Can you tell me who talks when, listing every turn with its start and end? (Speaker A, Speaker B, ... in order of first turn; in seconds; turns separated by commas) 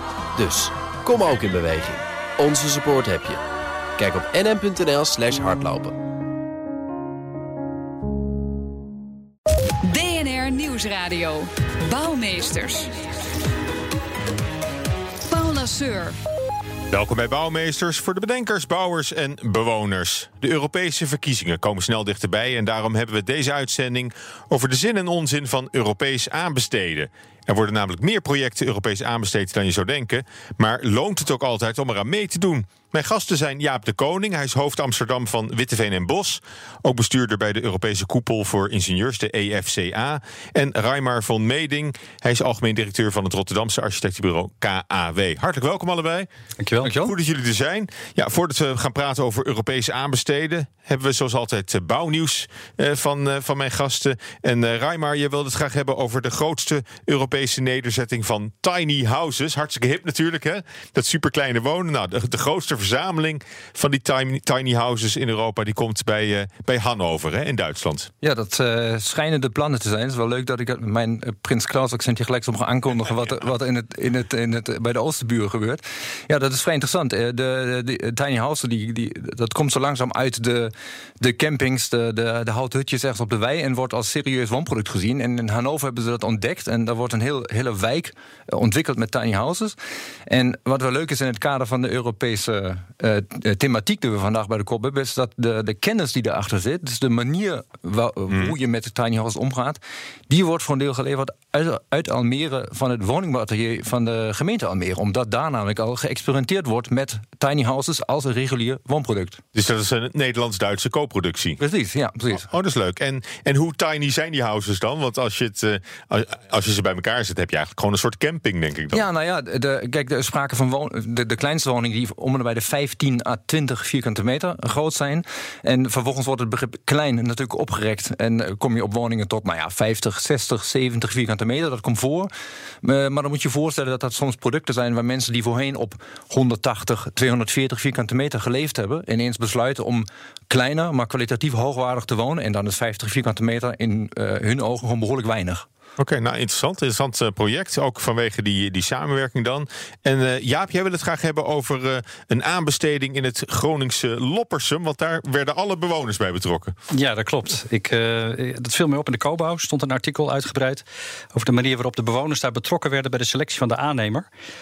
Speaker A: 0.3-3.4, Speaker A: 4.0-6.0, Speaker B: 9.8-12.9, Speaker B: 15.3-16.2, Speaker C: 16.9-46.3, Speaker D: 46.6-47.1, Speaker C: 46.8-68.1, Speaker E: 68.2-89.8, Speaker E: 90.3-109.4, Speaker C: 109.5-111.6, Speaker E: 111.6-112.5, Speaker C: 112.3-119.0, Speaker E: 118.9-132.3, Speaker E: 132.8-145.7, Speaker C: 146.0-156.8, Speaker D: 156.9-164.3